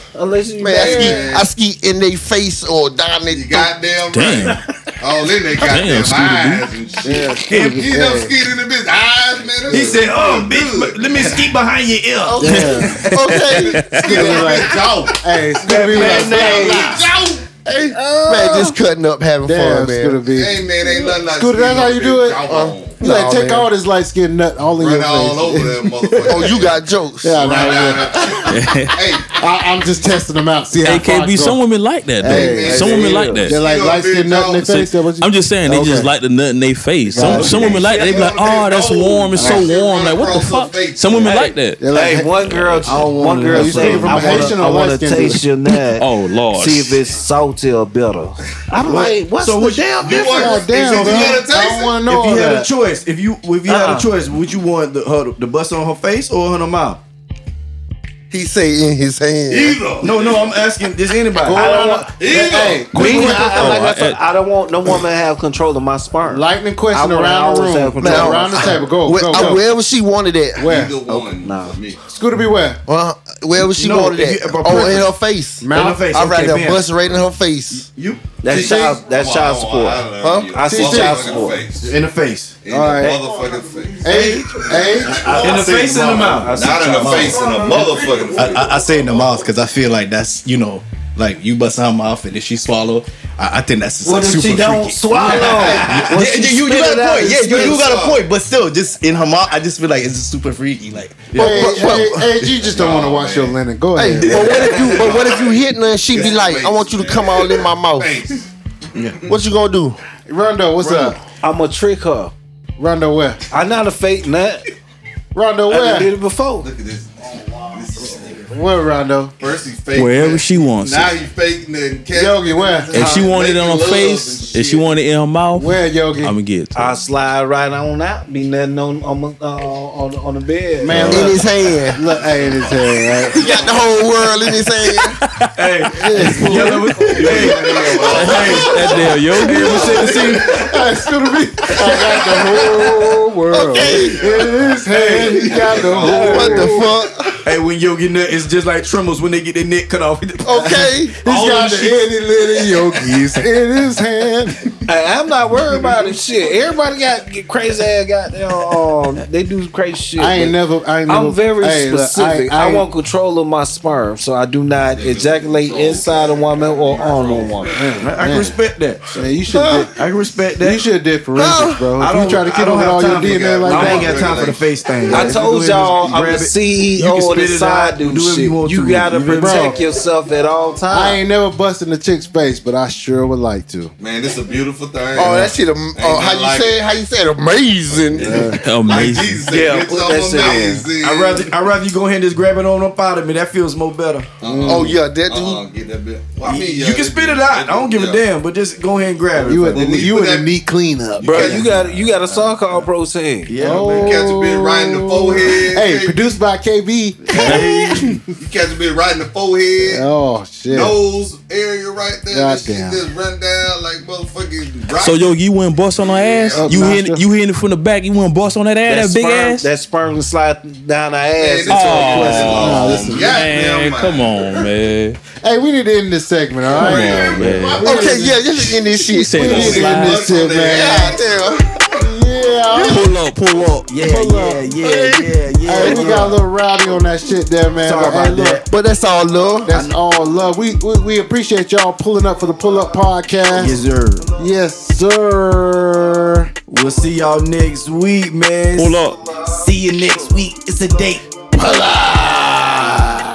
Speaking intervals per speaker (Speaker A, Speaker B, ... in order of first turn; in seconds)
Speaker A: 0.1-1.3, 15.6-17.0, 17.9-18.8, 32.6-33.5, 41.2-50.6, 53.7-54.1, 61.5-68.8, 71.4-71.8, 78.4-81.7, 85.1-88.1, 94.0-97.8, 111.4-112.3, 113.5-114.7, 115.7-116.7, 126.8-131.2, 145.9-146.7, 154.9-167.7, 173.7-174.2, 175.1-181.2, 189.5-190.9, 201.2-203.6, 218.9-222.9
Speaker B: 0.6-3.8, 12.3-14.3, 17.6-20.2, 22.4-23.7, 26.3-27.9, 58.3-59.9, 68.0-70.7, 72.9-77.9, 80.2-80.5, 101.4-102.2, 104.0-108.2, 109.3-110.0, 131.1-132.0, 133.3-135.2, 143.5-144.4, 146.0-147.4, 150.4-151.2, 169.5-169.9, 171.4-171.9, 185.1-188.6, 194.6-195.6, 227.8-230.1, 230.6-231.7, 234.8-236.2, 238.7-239.7
Speaker C: 0.7-1.5, 3.3-11.6, 13.9-17.5, 20.3-23.0, 24.8-26.8, 27.4-29.3, 32.2-34.8, 37.3-41.4, 50.0-52.1, 59.5-60.7, 62.2-62.9, 70.6-72.0, 78.5-82.0, 82.6-88.7, 97.5-98.3, 102.6-103.6, 104.8-108.5, 110.8-111.1, 116.6-118.4, 119.4-124.9, 133.3-134.0, 137.0-140.7, 141.8-142.9, 143.8-146.9, 151.3-152.1, 164.8-167.9, 173.0-176.4, 184.0-186.8, 188.1-191.5, 194.4-198.2, 199.7-200.5, 201.2-201.7, 203.8-206.3, 208.3-210.1, 210.7-216.9, 221.4-224.7, 226.8-227.6, 229.4-231.6
Speaker D: 4.1-4.6, 5.6-6.7, 13.0-14.2, 28.5-29.0, 30.8-33.6, 34.7-41.8, 42.5-42.9, 46.0-47.0, 62.9-64.2, 120.0-121.2, 122.9-127.0, 130.9-131.4, 136.1-137.1, 138.1-140.1, 188.6-189.5, 214.9-219.7, 221.7-225.2, 226.7-228.1, 228.9-230.3, 248.8-249.2
Speaker E: 7.0-8.4, 12.4-13.2, 13.9-17.0, 19.4-20.7, 21.3-26.4, 27.2-28.4, 29.3-31.6, 32.2-36.1, 37.1-37.9, 41.8-42.4, 43.5-45.5, 50.2-52.7, 61.3-63.9, 66.2-69.6, 70.6-71.0, 72.1-72.8, 75.6-76.2, 78.5-79.0, 80.7-81.4, 82.7-83.2, 84.0-85.4, 101.3-104.8, 110.3-111.2, 112.8-113.4, 115.3-116.1, 118.5-119.3, 122.1-123.2, 125.5-126.4, 130.8-133.4, 135.9-137.9, 139.6-146.9, 150.6-154.7, 160.2-162.9, 167.7-168.6, 169.1-169.9, 170.6-174.4, 179.3-179.8, 180.9-183.9, 188.1-188.6, 194.4-194.9, 199.3-201.7, 203.6-208.2, 209.8-211.0, 212.3-213.0, 216.6-217.2, 222.6-223.5, 225.4-228.5, 229.4-231.2, 231.9-233.2, 234.0-234.7, 235.7-238.6, 239.7-243.8, 244.4-246.5
Speaker F: 7.4-7.9, 9.6-13.1, 16.0-16.7, 37.2-37.7, 42.9-44.6, 48.8-50.2, 50.8-51.5, 52.1-57.0, 60.0-61.7, 73.6-75.2, 75.7-76.9, 77.7-78.4, 81.7-82.6, 84.1-88.4, 95.1-98.2, 101.3-102.5, 104.5-105.0, 109.0-109.2, 135.6-138.8, 139.4-140.7, 144.9-145.5, 147.4-150.6, 168.0-169.2, 169.9-170.9, 172.0-179.8, 191.0-194.3, 196.4-200.2, 201.3-202.8, 203.5-204.3, 207.4-208.2, 232.7-236.4, 237.8-238.7, 243.5-244.3, 246.7-253.1
Speaker G: 85.7-86.0, 87.4-96.5, 97.1-101.2, 117.8-118.3